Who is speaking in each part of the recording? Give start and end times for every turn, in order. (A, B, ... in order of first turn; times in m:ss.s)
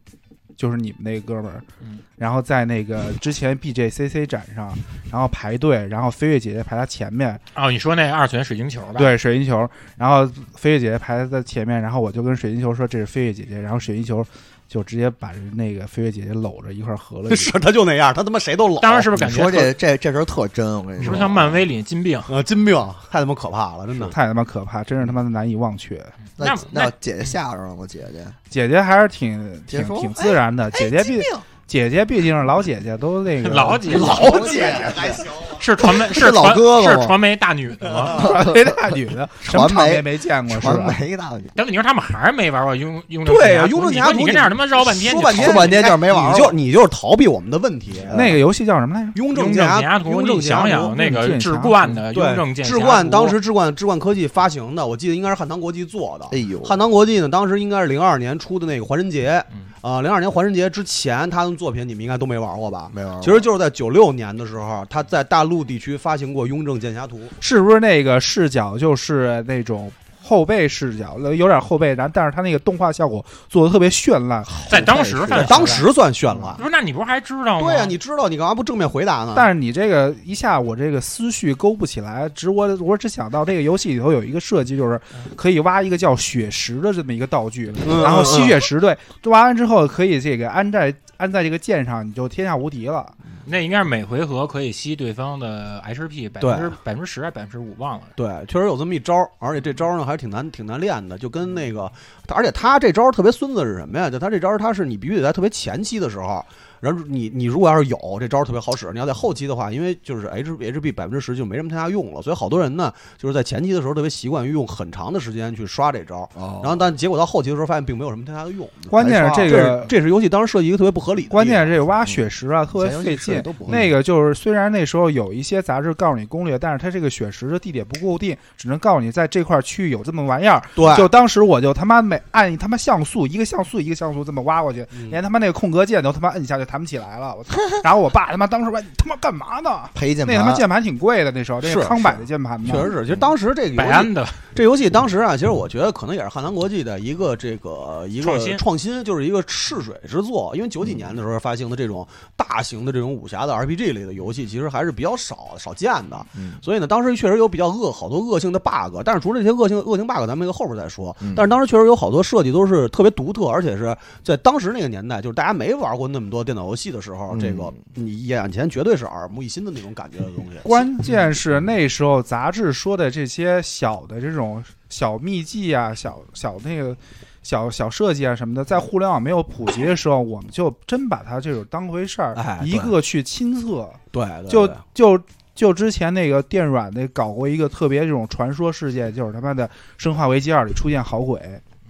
0:00.6-0:01.6 A
0:02.2-0:07.4 A
0:07.5-0:09.1 B
0:09.0-0:17.5 A
0:17.3-0:19.2 C
0:18.8-0:19.8 B
0:19.2-0:21.6 D
0:21.0-0:22.3 B
0:22.3-0:24.1 C
0:24.0-0:26.1 A
0:26.4-0:27.4 B
0:26.4-0:28.4 D
0:28.5-0:34.4 A
0:29.7-0:31.5 D
0:33.4-0:34.5 B
0:33.9-0:37.2 D
0:34.8-0:35.2 C
0:35.5-0:38.3 B
0:38.0-0:41.6 D
0:38.1-0:41.0 A
0:41.6-0:45.7 B
0:43.2-0:48.4 C
0:45.3-0:46.5 D
0:48.1-0:48.3 D
0:48.1-0:49.2 A
0:49.1-0:51.0 C
0:49.3-0:53.4 B
0:50.9-0:52.0 A
0:52.1-1:07.3 C
0:56.3-0:56.8 D
1:02.9-1:03.5 D
1:07.4-1:14.6 A
1:14.4-1:15.8 D
1:14.7-1:15.9 B
1:15.3-1:16.6 C
1:16.6-1:18.0 B
1:17.6-1:19.5 C
1:19.3-1:33.1 A
1:27.7-1:28.0 B
1:27.8-1:28.6 C
1:33.4-1:38.1 B
1:36.4-1:36.8 C
1:38.2-2:01.8 C
1:56.4-1:56.9 D
1:58.9-1:59.9 A
1:58.9-1:59.7 D
2:01.3-2:22.9 A
2:02.7-2:03.9 D
2:10.8-2:11.1 C
2:14.9-2:15.2 C
2:19.9-2:20.7 D
2:21.6-2:50.9 C
2:23.7-2:24.4 B
2:28.2-2:28.6 B
2:36.3-2:36.6 D
2:41.2-2:41.5 D
2:47.3-2:47.7 D
2:50.6-3:11.6 A
3:02.3-3:02.9 C
3:04.1-3:04.8 C